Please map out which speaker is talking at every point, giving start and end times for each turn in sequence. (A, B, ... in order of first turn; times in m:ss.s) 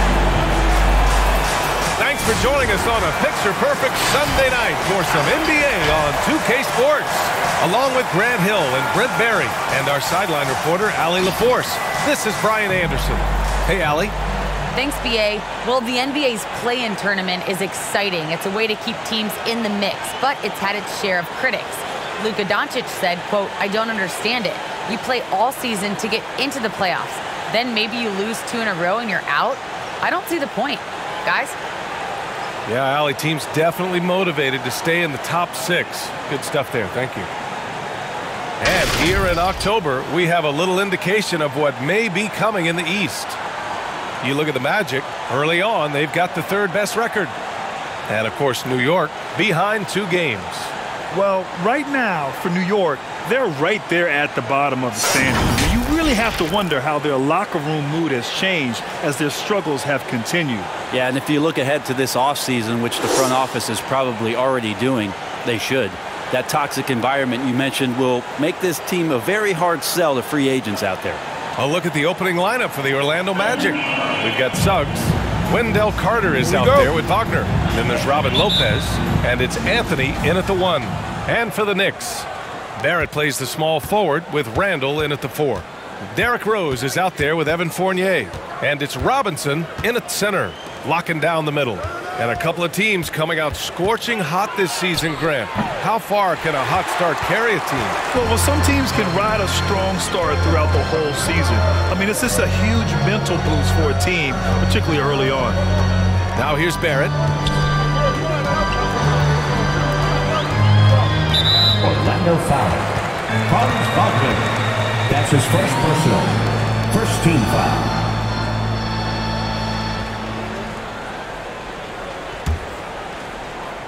0:02.0-0:14.1 A
0:14.7-0:31.5 B
0:32.6-0:37.3 A
0:38.6-0:43.4 A
0:44.2-0:47.3 A
0:48.1-0:50.7 A
0:51.1-1:00.7 C
1:00.9-1:11.2 D
1:11.6-1:38.0 A
1:38.1-1:45.6 C
1:46.3-1:47.1 A
1:51.8-1:52.9 E
1:53.5-1:54.5 E
1:55.1-1:56.4 E
1:56.9-1:57.9 E